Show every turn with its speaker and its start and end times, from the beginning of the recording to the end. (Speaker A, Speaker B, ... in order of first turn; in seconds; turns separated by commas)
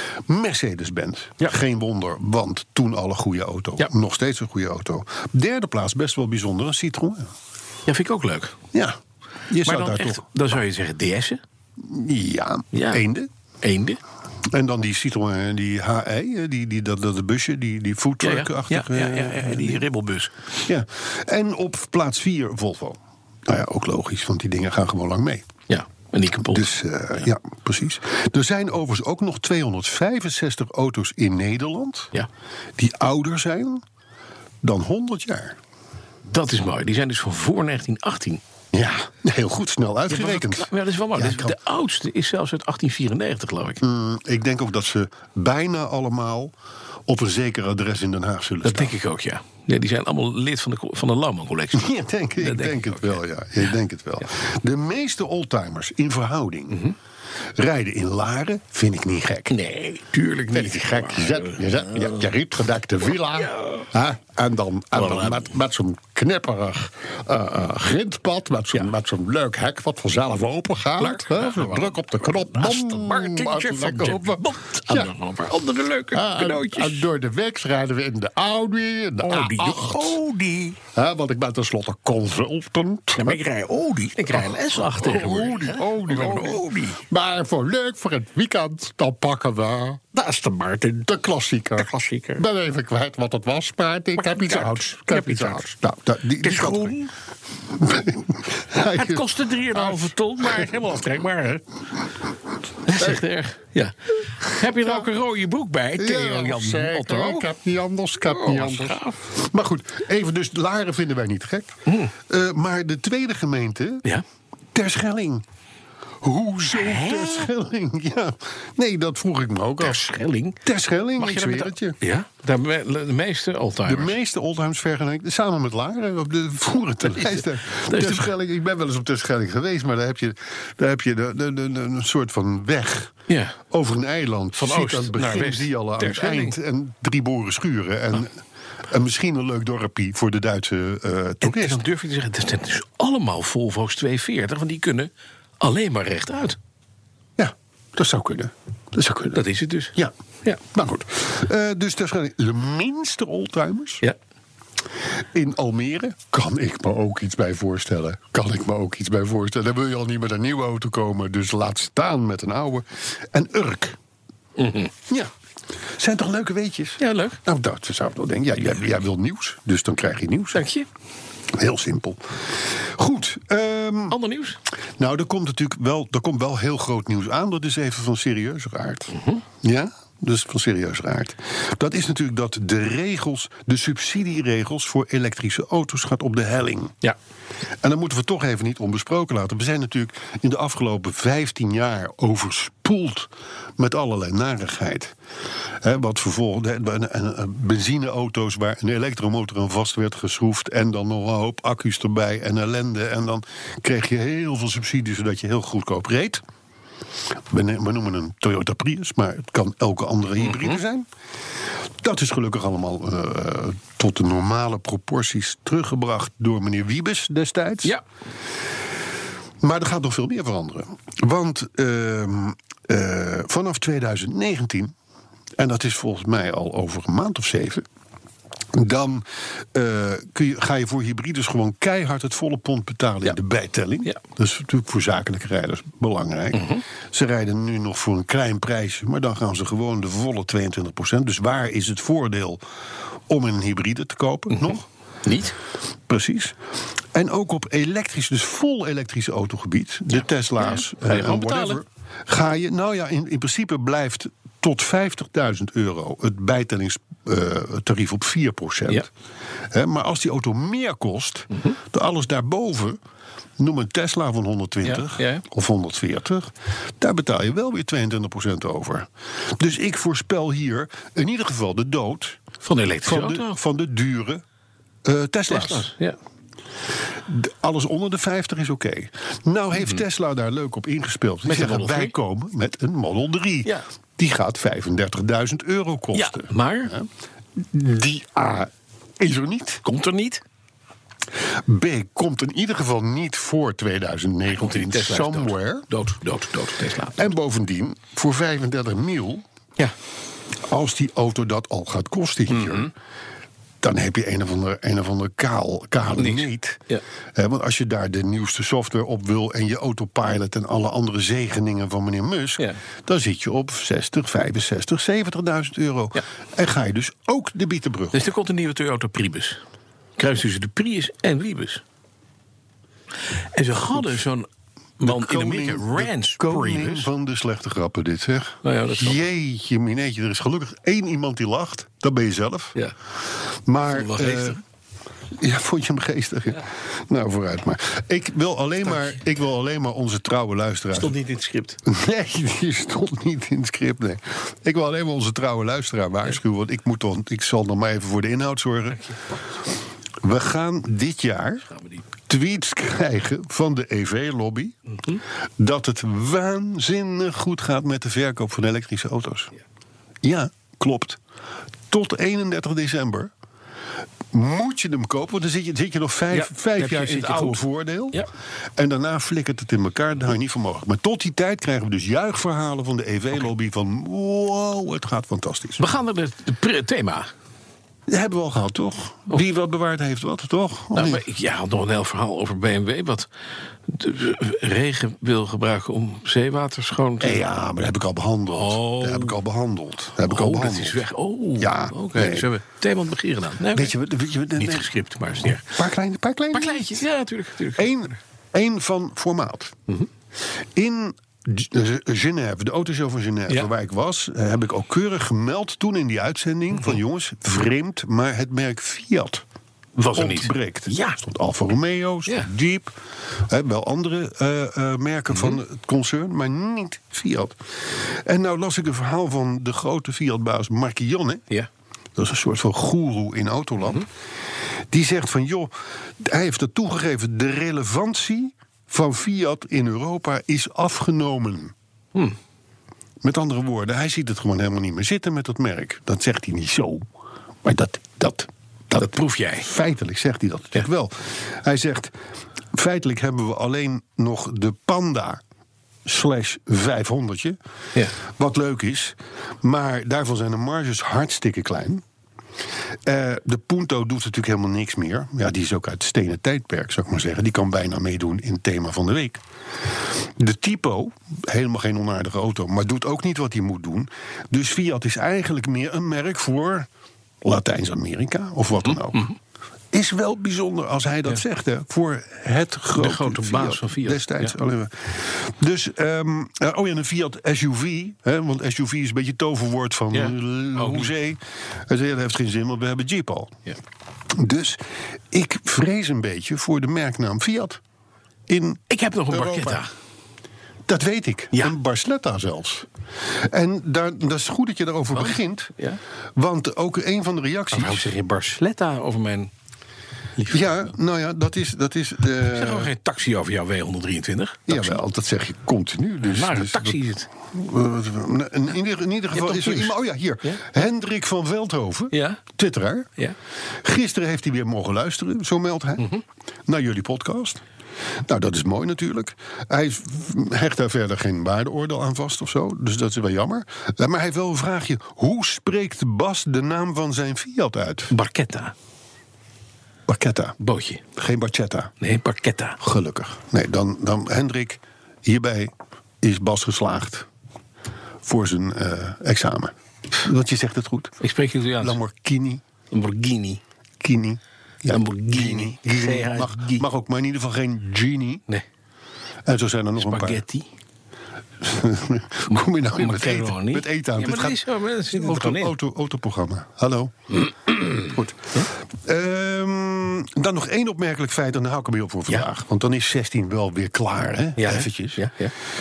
Speaker A: 0.3-7.3, Speaker B: 7.8-8.6, Speaker A: 8.7-9.0, Speaker A: 9.5-10.2, Speaker B: 9.6-11.4, Speaker A: 11.8-13.3, Speaker B: 12.7-13.0, Speaker B: 13.6-14.0, Speaker A: 14.5-19.9, Speaker B: 18.2-20.4, Speaker A: 20.6-25.5, Speaker B: 25.7-27.2, Speaker A: 26.4-32.1, Speaker A: 32.8-33.8, Speaker A: 34.6-35.6, Speaker B: 36.2-38.4, Speaker A: 38.7-41.6, Speaker B: 40.1-43.8, Speaker A: 43.8-46.5, Speaker A: 47.1-48.9, Speaker B: 48.6-53.2, Speaker A: 51.7-56.8, Speaker A: 57.5-59.5, Speaker B: 59.5-62.3, Speaker A: 60.5-75.1, Speaker B: 63.3-63.9, Speaker B: 64.9-65.5, Speaker B: 71.0-77.0, Speaker A: 76.1-80.2, Speaker B: 79.2-80.8, Speaker A: 80.9-83.4, Speaker B: 83.2-87.0, Speaker A: 84.3-97.0, Speaker B: 90.2-90.8, Speaker B: 91.8-92.4, Speaker B: 94.2-95.6, Speaker B: 96.4-97.1, Speaker A: 97.7-100.7, Speaker B: 98.8-101.6, Speaker B: 102.8-107.5, Speaker A: 102.9-103.2, Speaker A: 104.4-105.1, Speaker A: 106.0-114.0, Speaker B: 108.2-109.2, Speaker B: 111.8-112.1, Speaker A: 114.7-115.4, Speaker A: 116.2-120.0, Speaker B: 116.7-117.5, Speaker B: 119.8-120.6, Speaker A: 120.6-122.0, Speaker B: 121.2-124.1, Speaker A: 123.8-133.1, Speaker B: 127.8-128.3, Speaker B: 133.3-133.6, Speaker A: 133.7-141.8, Speaker B: 134.5-136.6, Speaker B: 141.4-146.6, Speaker A: 147.4-149.4, Speaker B: 149.3-150.6, Speaker A: 149.9-154.0, Speaker A: 155.3-164.0, Speaker B: 164.6-164.9, Speaker A: 166.0-170.6, Speaker B: 167.0-167.4, Speaker B: 170.5-170.9, Speaker A: 171.5-174.2, Speaker B: 174.1-174.6, Speaker A: 175.0-187.0, Speaker B: 179.1-179.4, Speaker A: 187.8-195.1, Speaker A: 195.8-206.4, Speaker A: 207.5-211.1, Speaker B: 210.4-210.8, Speaker A: 212.0-217.9, Speaker A: 219.6-224.9, Speaker A: 225.6-227.8, Speaker A: 228.7-242.6, Speaker B: 236.5-236.8, Speaker A: 243.3-244.9, Speaker B: 244.5-245.5, Speaker A: 246.1-246.6, Speaker A: 247.1-259.1, Speaker B: 250.6-251.8, Speaker A: 259.7-263.0, Speaker A: 263.6-272.4, Speaker B: 264.8-265.4, Speaker B: 272.6-273.6, Speaker A: 273.0-274.4, Speaker A: 275.0-275.9, Speaker B: 275.5-276.2, Speaker A: 277.2-289.8, Speaker B: 281.4-282.1, Speaker B: 286.1-286.9, Speaker B: 289.8-290.4, Speaker A: 291.4-295.9, Speaker B: 294.5-297.3, Speaker A: 297.1-299.4, Speaker A: 300.7-302.9, Speaker B: 302.5-302.9, Speaker A: 303.8-306.8, Speaker B: 306.2-307.0, Speaker A: 307.3-318.2, Speaker B: 318.1-319.6, Speaker B: 320.2-321.8, Speaker B: 323.4-324.5, Speaker B: 325.0-327.1, Speaker A: 325.0-332.8, Speaker B: 328.6-329.2, Speaker A: 333.3-334.6, Speaker B: 333.9-334.6, Speaker A: 335.4-341.1, Speaker B: 340.9-341.8, Speaker A: 341.8-349.1, Speaker A: 350.2-351.7, Speaker B: 351.7-352.0, Speaker A: 352.3-359.5, Speaker B: 354.9-355.2, Speaker A: 360.2-361.2, Speaker A: 361.9-363.3, Speaker A: 364.3-368.2, Speaker B: 366.3-368.3, Speaker A: 368.8-375.8, Speaker B: 375.8-377.3, Speaker A: 378.1-381.2, Speaker B: 380.9-383.3, Speaker B: 383.9-387.4, Speaker A: 387.2-391.0, Speaker B: 388.5-389.4, Speaker B: 390.2-393.9, Speaker A: 391.6-392.5, Speaker A: 393.7-394.9, Speaker B: 394.5-395.8, Speaker A: 395.4-397.0, Speaker B: 396.5-398.0, Speaker A: 397.7-399.8, Speaker A: 400.7-409.4, Speaker B: 410.0-411.2, Speaker A: 410.1-421.5, Speaker A: 422.1-424.1, Speaker A: 424.9-431.7, Speaker A: 433.2-437.1, Speaker A: 437.6-442.1, Speaker B: 438.9-439.7, Speaker A: 442.7-445.4, Speaker A: 446.0-447.6, Speaker A: 448.2-452.0, Speaker A: 453.0-466.9, Speaker A: 467.4-469.3, Speaker B: 468.8-469.4, Speaker A: 469.9-483.6, Speaker B: 472.9-474.5, Speaker B: 480.1-481.1, Speaker A: 484.3-487.8, Speaker A: 488.5-489.8, Speaker B: 488.9-489.9, Speaker A: 490.9-492.9, Speaker A: 493.4-495.7, Speaker B: 495.1-496.0, Speaker A: 496.4-498.1, Speaker B: 497.7-499.5, Speaker B: 500.4-500.7, Speaker A: 500.5-502.9, Speaker B: 502.4-505.0, Speaker A: 504.7-507.0, Speaker B: 506.2-507.3, Speaker A: 507.5-513.1, Speaker B: 509.3-510.6, Speaker B: 512.1-512.4, Speaker A: 513.8-516.1, Speaker A: 516.7-517.6, Speaker A: 518.3-528.1, Speaker B: 528.1-528.7, Speaker A: 530.1-530.6, Speaker B: 530.6-531.0, Speaker A: 531.1-531.9, Speaker B: 532.0-532.8, Speaker A: 532.8-537.3, Speaker A: 538.2-541.2, Speaker B: 541.2-542.0, Speaker A: 541.8-542.6, Speaker B: 542.9-543.6, Speaker A: 544.0-548.4, Speaker B: 544.8-546.8, Speaker A: 549.5-550.4, Speaker B: 550.0-550.7, Speaker A: 551.6-557.3, Speaker B: 552.5-555.7, Speaker B: 557.4-558.7, Speaker A: 558.0-565.3, Speaker B: 564.6-565.5